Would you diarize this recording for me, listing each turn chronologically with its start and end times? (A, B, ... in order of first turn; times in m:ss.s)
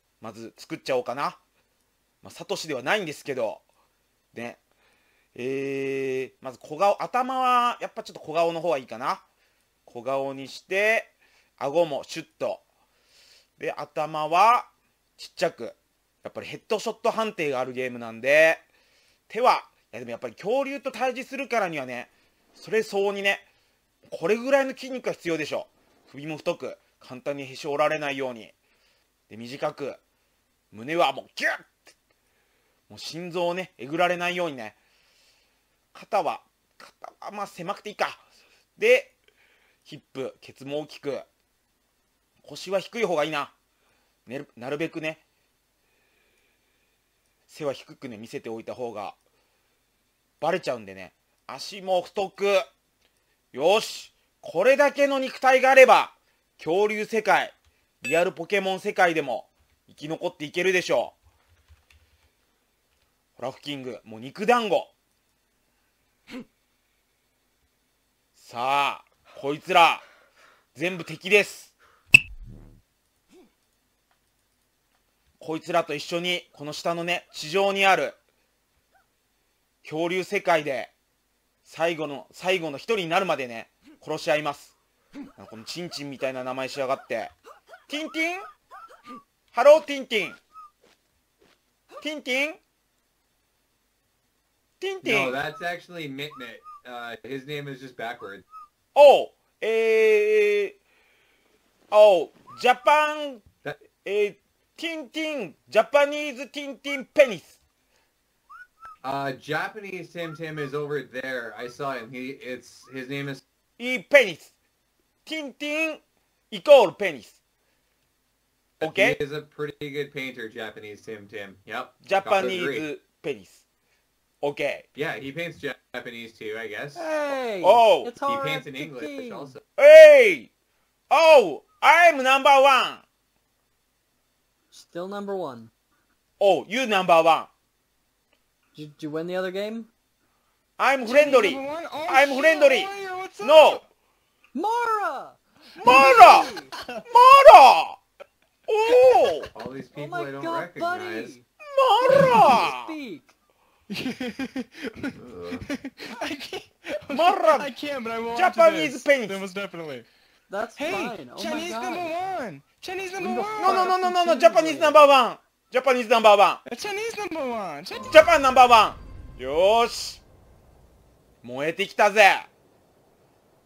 0:00.2-0:01.4 A
0:02.2-0:03.6 A
0:04.3-0:04.6 A
0:05.4-0:09.2 A
0:09.9-0:12.6 A
0:13.6-0:18.6 A
0:19.3-0:23.4 A
0:24.1-0:28.5 A
0:29.3-0:30.0 A
0:30.7-0:31.9 A
0:32.9-0:34.8 A
0:35.9-0:38.2 A
0:38.8-0:39.1 A
0:39.9-0:41.3 A
0:42.4-0:43.5 A
0:44.3-0:45.2 A
0:47.5-0:49.2 A
0:50.4-0:52.6 A
0:53.5-1:01.2 A
1:03.4-1:04.9 A
1:08.4-1:10.0 A
1:10.8-1:11.7 A
1:15.4-1:18.2 A
1:19.8-1:20.9 A
1:21.6-1:24.8 A
1:25.4-1:27.3 A
1:27.9-1:28.5 A
1:29.5-1:30.4 A
1:32.0-1:32.6 A
1:34.8-1:35.4 A
1:35.0-1:38.4 B
1:39.0-1:40.8 A
1:41.9-1:43.4 A
1:44.0-1:47.6 A
1:49.0-1:53.4 B
1:53.8-1:54.5 A
1:55.2-1:57.4 A
1:58.8-2:02.9 B
1:58.8-1:59.2 A
2:02.0-2:03.6 A
2:04.4-2:04.8 A
2:05.0-2:07.1 B
2:07.0-2:09.6 C
2:07.6-2:08.1 A
2:08.2-2:09.6 B
2:09.8-2:10.5 A
2:11.1-2:13.0 A
2:14.7-2:15.7 C
2:16.4-2:17.5 A
2:18.7-2:19.9 C
2:20.8-2:23.8 A
2:21.0-2:23.8 D
2:24.5-2:26.7 C
2:25.8-2:26.5 A
2:25.8-2:27.0 D
2:27.1-2:28.0 A
2:28.7-2:29.5 A
2:29.5-2:31.4 B
2:29.9-2:31.5 C
2:31.6-2:32.9 A
2:32.0-2:33.3 C
2:33.9-2:40.1 D
2:35.2-2:35.7 B
2:37.1-2:37.7 A
2:38.3-2:39.4 A
2:40.5-2:42.1 C
2:40.8-2:44.0 D
2:43.2-2:45.0 C
2:43.6-2:46.6 A
2:46.6-2:48.2 D
2:48.1-2:50.2 A
2:51.4-2:52.5 A